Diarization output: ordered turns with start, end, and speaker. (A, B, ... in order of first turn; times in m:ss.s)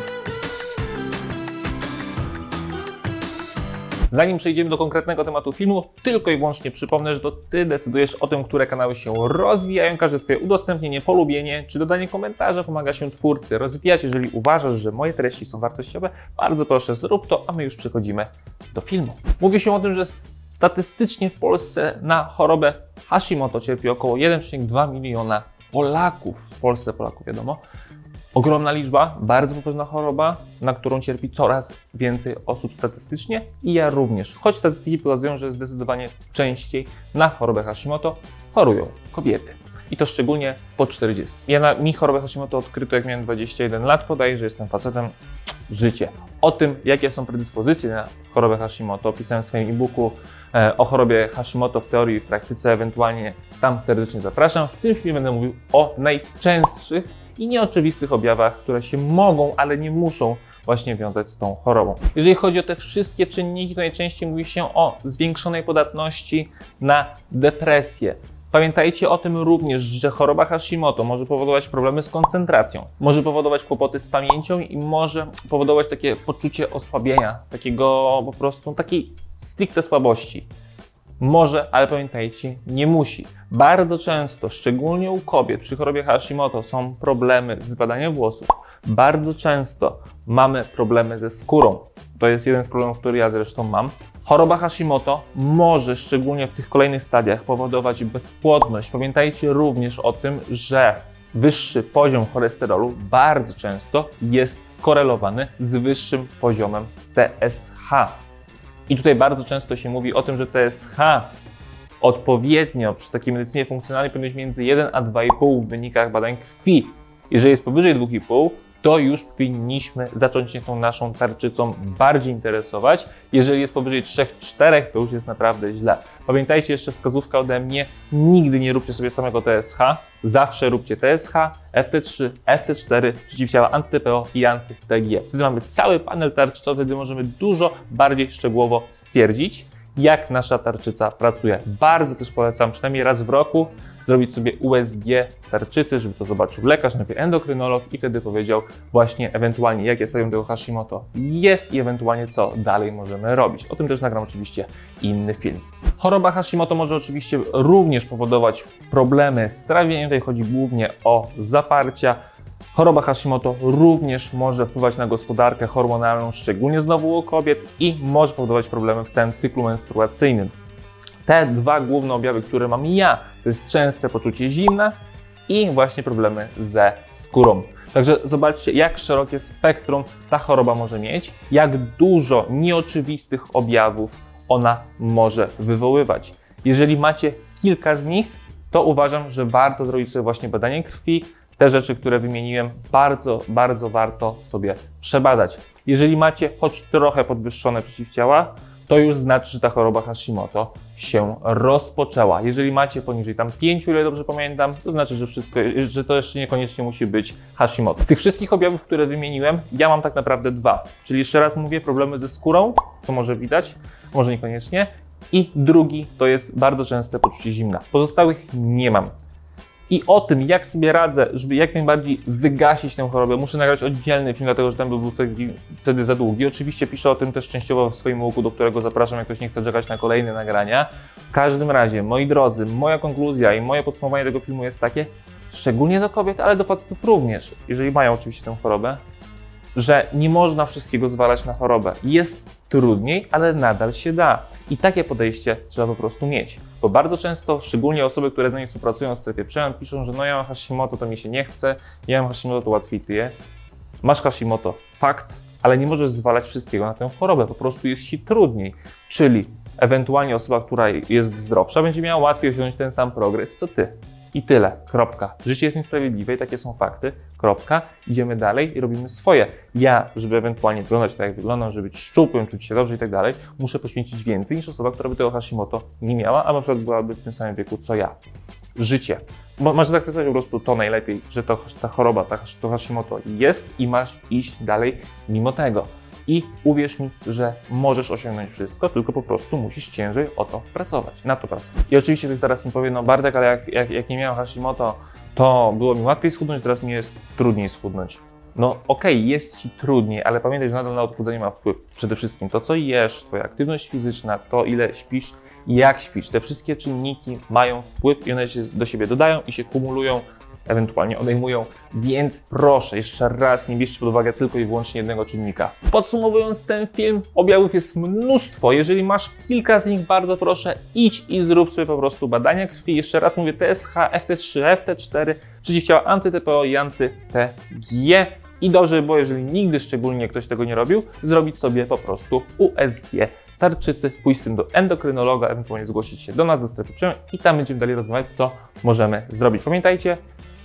0:04.1-0:27.6 A
0:28.3-0:45.1 A
0:45.7-1:20.5 A
1:21.2-1:48.2 A
1:48.9-1:51.3 A
1:52.0-2:42.2 A
2:42.7-2:50.6 A
2:51.2-2:55.0 A
2:55.5-3:39.1 A
3:39.9-3:59.0 A
3:59.8-4:13.3 A
4:14.0-4:38.2 A
4:38.8-5:40.2 A